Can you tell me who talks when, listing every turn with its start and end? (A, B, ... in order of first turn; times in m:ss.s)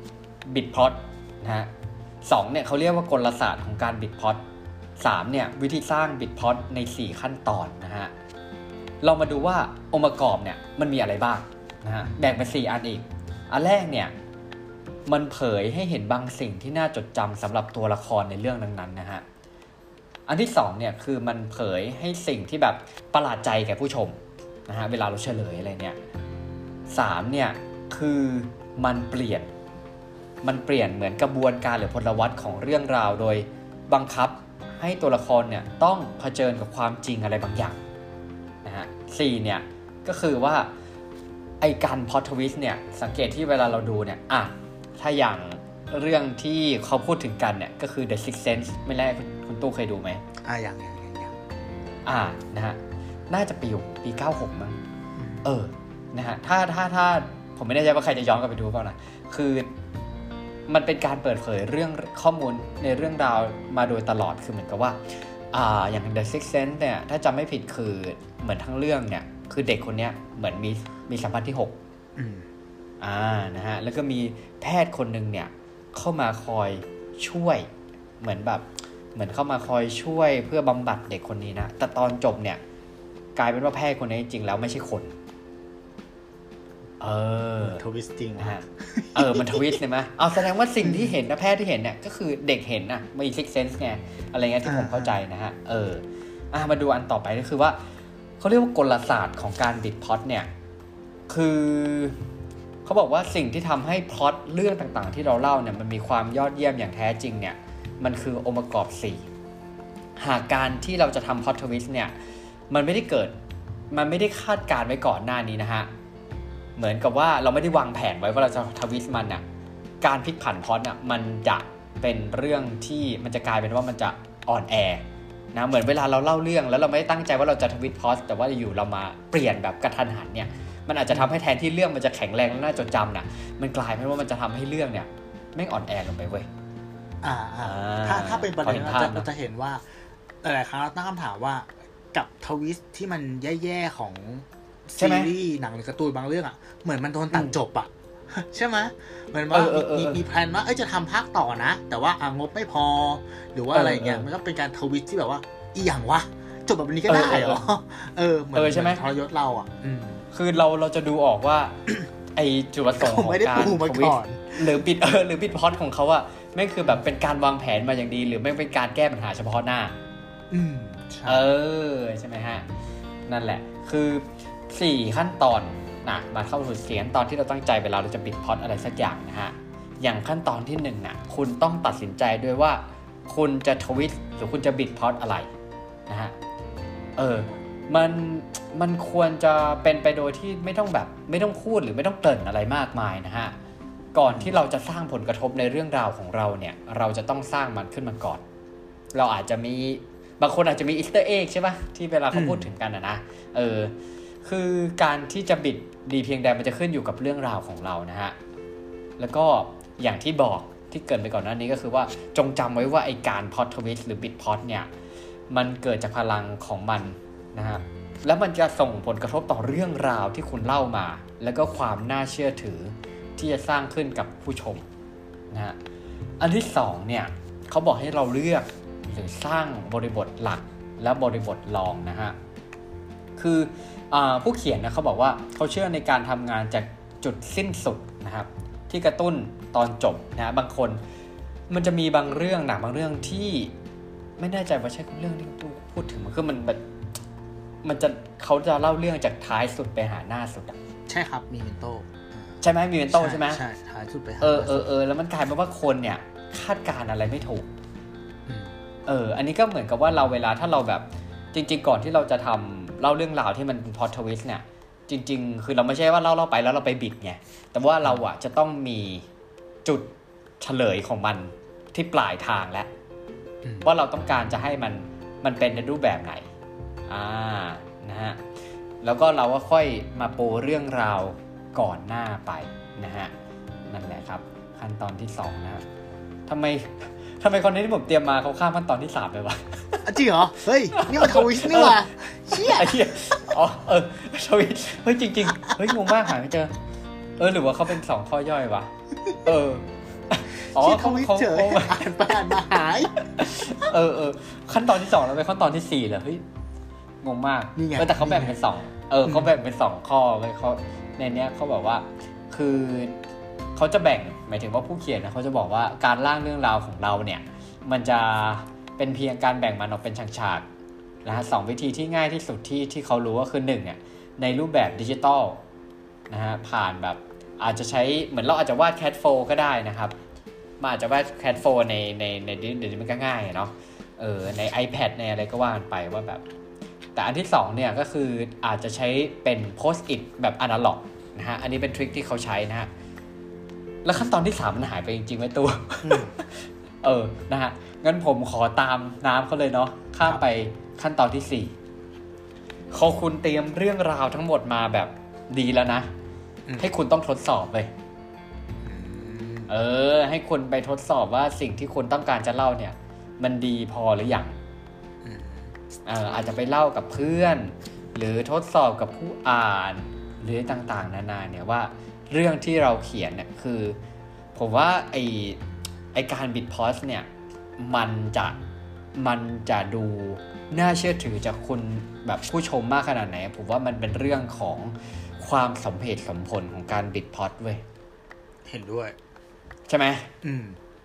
0:00.5-0:01.7 A
0:02.2-0:04.4 A
0:05.0-0:08.1 A
0:09.0-0:14.1 A
0:15.1-0:19.2 A
0:20.3-0:26.0 A
0:26.9-0:29.5 A
0:30.4-0:37.8 A
0:38.6-0:40.7 A
0:41.6-0:50.2 A
0:50.4-0:51.4 B
0:52.1-0:54.8 A
0:55.2-0:55.4 B
0:55.4-0:59.7 A
1:00.7-1:05.0 A
1:05.5-1:11.8 A
1:12.2-1:12.5 B
1:13.0-1:17.7 A
1:18.2-1:22.6 A
1:23.4-1:25.2 A
1:27.0-1:27.8 A
1:27.6-1:29.8 B
1:28.4-1:37.8 A
1:30.8-1:31.2 B
1:34.6-1:35.2 B
1:38.4-1:40.5 A
1:41.3-1:42.2 A
1:42.8-1:49.3 A
1:50.2-1:52.1 A
1:52.7-1:53.3 A
1:53.9-1:55.9 A
1:56.8-1:59.4 A
2:00.0-2:16.5 A
2:17.2-2:19.8 B
2:17.6-2:19.3 A
2:20.4-2:40.2 B
2:25.0-2:25.3 A
2:29.5-2:30.2 A
2:33.7-2:34.3 A
2:37.1-2:37.6 A
2:38.5-2:39.0 A
2:40.3-2:41.8 A
2:42.3-2:50.0 A
2:43.0-2:44.8 B
2:50.5-2:51.5 B
2:51.3-2:52.6 A
2:53.3-3:05.5 A
3:06.1-3:06.4 A
3:07.2-3:13.5 A
3:14.1-3:18.4 A
3:14.3-3:14.6 B
3:19.1-3:28.4 A
3:22.3-3:22.7 B
3:29.2-3:34.9 A
3:35.5-3:44.8 A
3:45.5-3:45.8 A
3:46.4-3:52.4 A
3:53.4-4:01.0 A
4:01.7-4:03.7 A
4:04.4-4:06.8 A
4:07.8-4:10.8 A
4:11.1-4:12.6 B
4:12.6-4:13.6 A
4:13.1-4:14.9 B
4:14.4-4:17.7 A
4:18.5-4:18.8 B
4:19.1-4:29.3 A
4:29.8-4:32.9 A
4:33.6-4:33.9 B
4:33.8-4:36.5 A
4:37.1-4:38.4 A
4:39.0-4:43.3 A
4:43.9-4:45.8 A
4:46.5-4:50.1 A
4:50.0-4:53.6 B
4:50.9-4:52.0 A
4:52.5-4:56.7 A
4:57.4-4:58.9 A
4:59.4-5:02.1 A
5:00.7-5:03.2 B
5:03.4-5:06.4 A
5:07.2-5:13.2 A
5:07.8-5:08.6 B
5:13.8-5:20.7 A
5:21.2-5:25.6 A
5:26.3-5:30.2 A
5:30.8-5:36.4 A
5:37.2-5:42.9 A
5:44.0-5:51.8 A
5:46.0-5:46.3 B
5:52.9-5:56.1 A
5:56.8-5:57.9 A
5:58.8-5:59.7 B
5:59.7-6:04.6 A
6:05.2-6:05.7 B
6:06.1-6:14.0 A
6:14.6-6:15.6 A
6:16.1-6:17.3 A
6:17.8-6:18.6 A
6:19.2-6:27.8 A
6:28.7-6:29.2 B
6:29.9-6:30.3 A
6:30.4-6:30.8 B